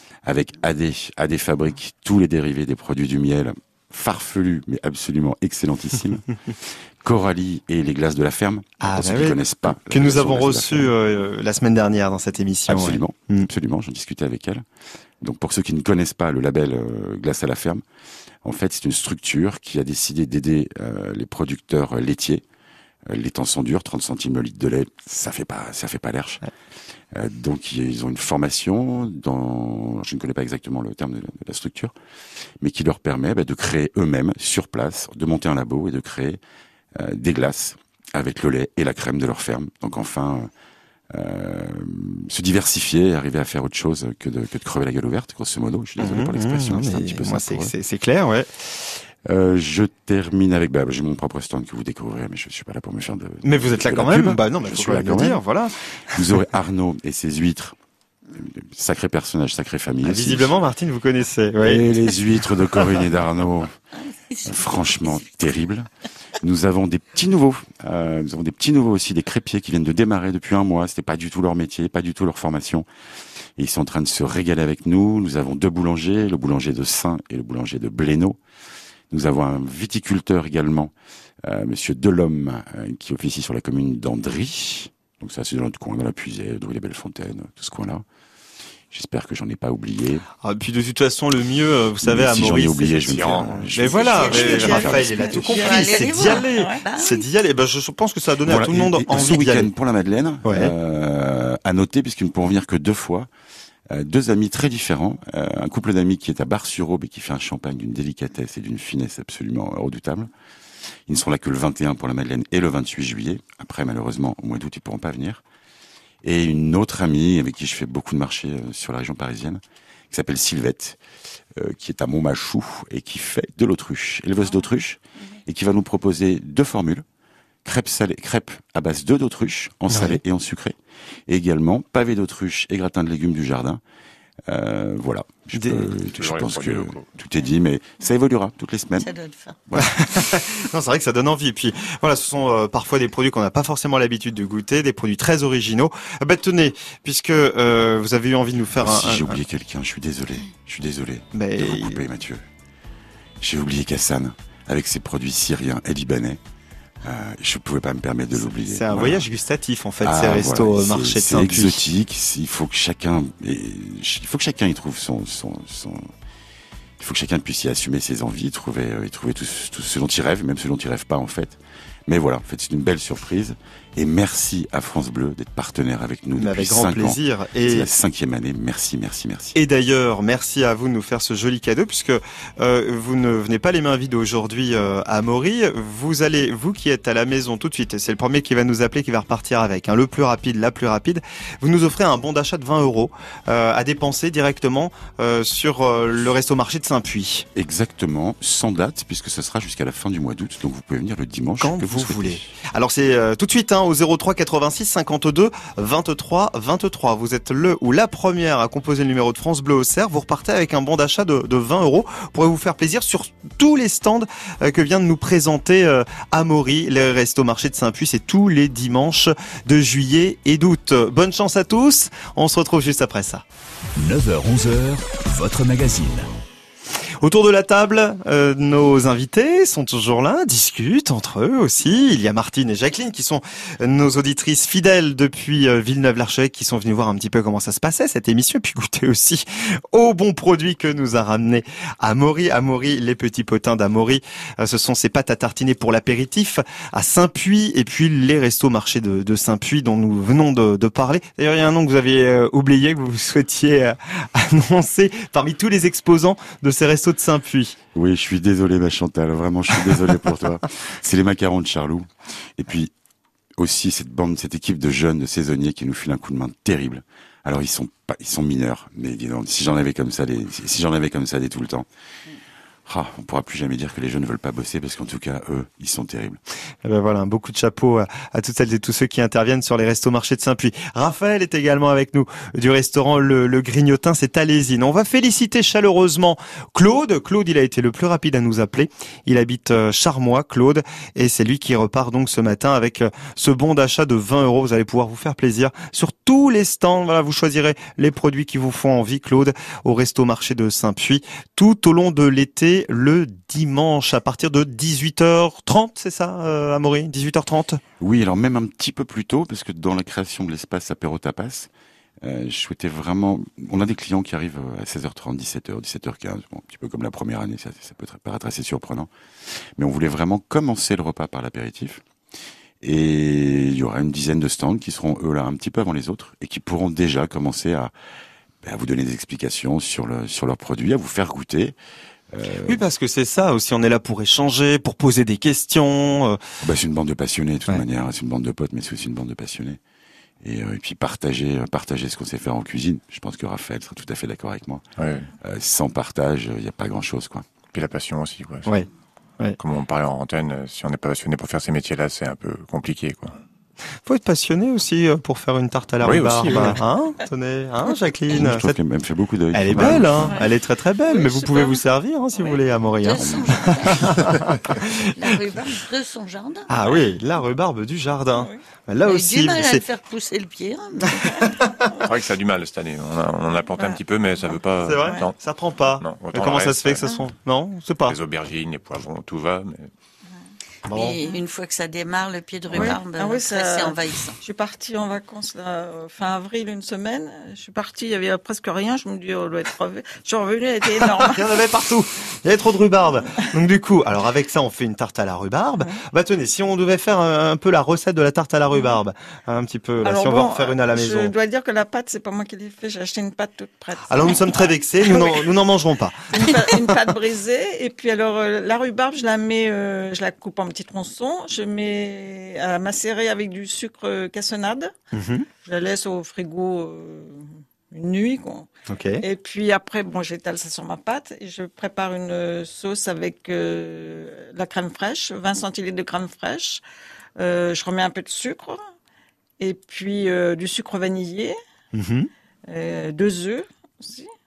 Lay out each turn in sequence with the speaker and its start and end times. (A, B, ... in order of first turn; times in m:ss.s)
0:00.2-0:10.9 A
0:08.8-0:13.5 B
0:12.7-0:14.6 A
0:15.2-0:17.8 A
0:18.4-0:22.4 A
0:23.1-0:26.5 A
0:27.1-0:32.0 A
0:32.6-0:36.4 A
0:37.0-0:40.5 A
0:41.1-0:47.7 A
0:46.0-0:48.5 B
0:49.2-0:55.4 A
0:53.4-0:56.2 B
0:56.1-0:57.8 A
0:58.3-1:00.6 A
1:00.0-1:01.8 B
1:01.6-1:03.7 A
1:04.3-1:04.6 C
1:04.4-1:05.9 A
1:06.4-1:12.9 A
1:13.6-1:18.4 A
1:19.1-1:28.0 A
1:28.9-1:30.2 A
1:30.4-1:33.2 B
1:32.0-1:35.7 A
1:33.1-1:34.8 D
1:33.7-1:39.7 B
1:34.1-1:37.3 C
1:34.5-1:36.8 E
1:38.5-1:43.3 A
1:40.4-1:40.7 B
1:43.9-1:50.3 A
1:51.1-1:55.4 A
1:56.2-2:01.0 A
2:01.5-2:07.0 A
2:07.6-2:10.8 A
2:09.9-2:10.2 B
2:11.3-2:13.8 A
2:14.5-2:19.1 A
2:15.5-2:15.9 B
2:16.0-2:17.1 D
2:19.0-2:19.6 C
2:19.7-2:20.2 A
2:19.8-2:29.4 B
2:28.8-2:32.4 A
2:31.3-2:32.0 B
2:33.4-2:36.4 A
2:37.0-2:39.3 A
2:38.5-2:41.8 B
2:40.0-2:46.1 A
2:47.0-2:59.6 A
2:56.4-2:57.9 B
2:59.6-3:17.5 B
3:17.6-3:22.5 A
3:21.6-3:43.4 B
3:44.0-3:46.3 F
3:47.2-4:17.8 B
4:17.9-4:22.9 A
4:23.6-4:31.9 A
4:32.9-4:36.4 A
4:36.8-5:07.8 B
5:08.0-5:11.7 A
5:12.2-5:22.0 A
5:22.8-5:27.9 A
5:28.6-5:31.8 A
5:32.3-5:32.8 A
5:32.6-5:36.4 B
5:36.6-5:39.8 A
5:40.4-5:44.8 A
5:45.0-5:45.3 D
5:45.4-5:47.5 A
5:47.7-5:48.8 D
5:49.6-5:53.4 D
5:54.1-5:58.8 B
5:56.0-5:56.8 D
5:58.3-6:00.4 A
5:59.5-6:05.1 B
6:01.1-6:01.8 E
6:03.0-6:06.9 C
6:03.2-6:03.9 A
6:06.7-6:09.8 B
6:09.0-6:11.4 C
6:11.4-6:11.9 B
6:12.0-6:15.4 D
6:14.8-6:18.2 B
6:16.0-6:17.0 D
6:18.1-6:19.9 D
6:20.9-6:21.2 B
6:20.9-6:24.4 C
6:22.7-6:31.6 E
6:31.0-6:41.3 B
6:40.0-6:45.5 E
6:44.1-6:47.0 B
6:46.3-6:54.9 E
6:55.1-6:55.5 B
6:55.6-6:58.7 E
6:58.9-6:59.2 B
6:59.2-7:06.8 E
7:07.4-7:08.8 E
7:09.6-7:11.6 E
7:11.9-7:12.3 B
7:12.7-7:14.3 E